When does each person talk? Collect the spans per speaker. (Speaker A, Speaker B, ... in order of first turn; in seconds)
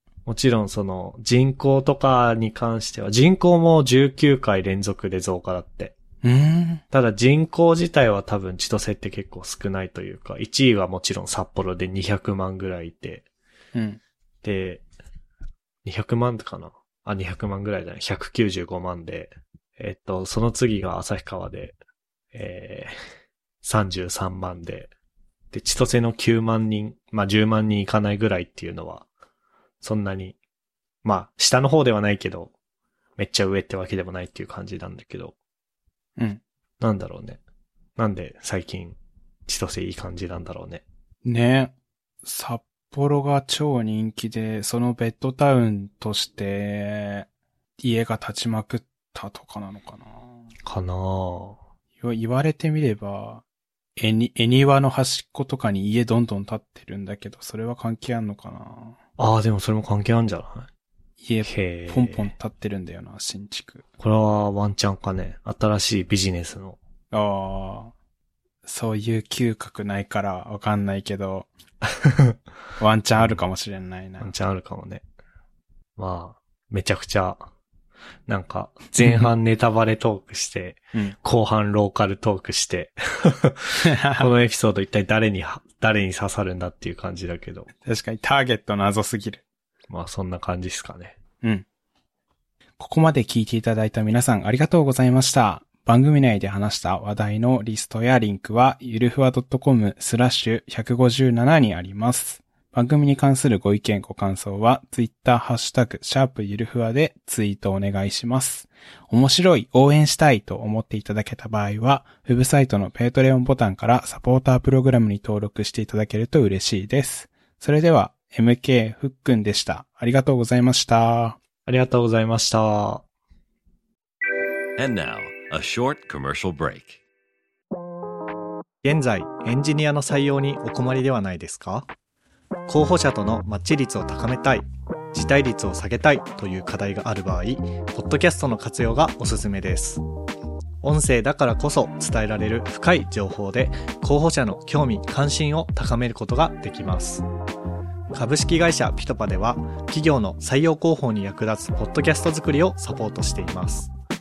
Speaker A: 0.3-6.0, 6.9-13.2, 14.4-14.8, 15.8-21.8, 22.3-22.9, 23.6-24.9, 25.5-29.1, 29.8-30.4, 31.0-32.5, 33.2-35.4, 36.8-37.4, 38.0-40.8, 50.6-51.6, 59.2-60.7, 61.4-62.3, 64.0-66.8, 71.9-72.3, 74.2-75.0, 76.0-77.4, 78.3-87.7, 89.9-91.2, 121.7-123.0, 128.8-131.9, 132.7-140.0, 140.8-147.2, 148.1-153.9
Speaker B: 6.2-6.8, 13.8-14.0, 41.2-47.3, 47.8-50.3, 52.0-53.4, 54.0-59.0, 61.2-63.8, 67.1-67.9, 68.6-71.5, 72.8-74.3, 79.0-79.3, 83.8-84.3, 87.8-89.4, 92.8-121.4
Speaker C: 124.8-127.0